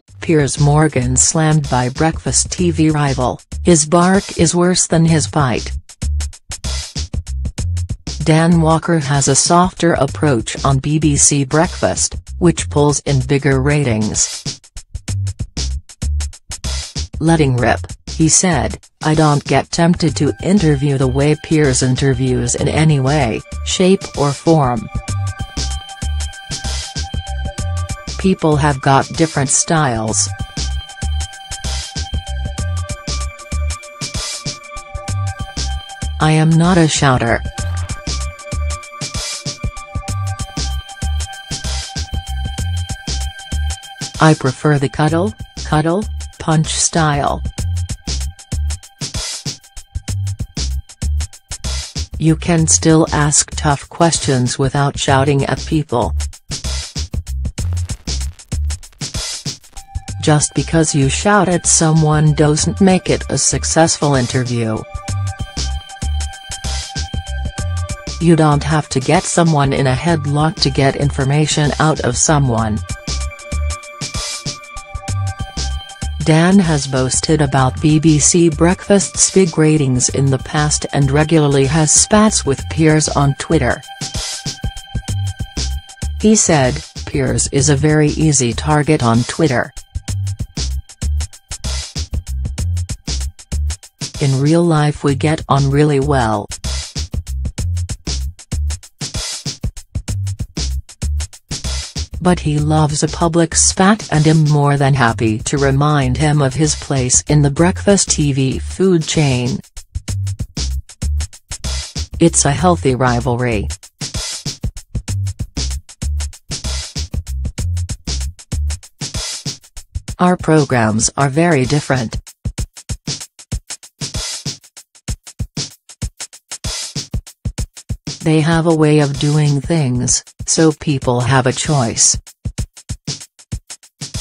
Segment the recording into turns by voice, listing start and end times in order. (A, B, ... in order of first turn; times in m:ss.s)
0:00.2-0:05.8 A
0:08.2-0:14.3 A
0:17.2-0:24.9 A
0:28.2-0:30.3 A
0:36.2-0:37.4 A
0:44.2-0:47.4 A
0:52.2-0:56.2 A
1:00.2-1:04.9 A
1:08.2-1:12.8 A
1:16.2-1:23.8 A
1:26.2-1:29.7 A
1:34.2-1:36.5 A
1:42.2-1:49.6 A
1:52.2-1:53.7 A
2:00.2-2:02.2 A
2:08.2-2:12.2 A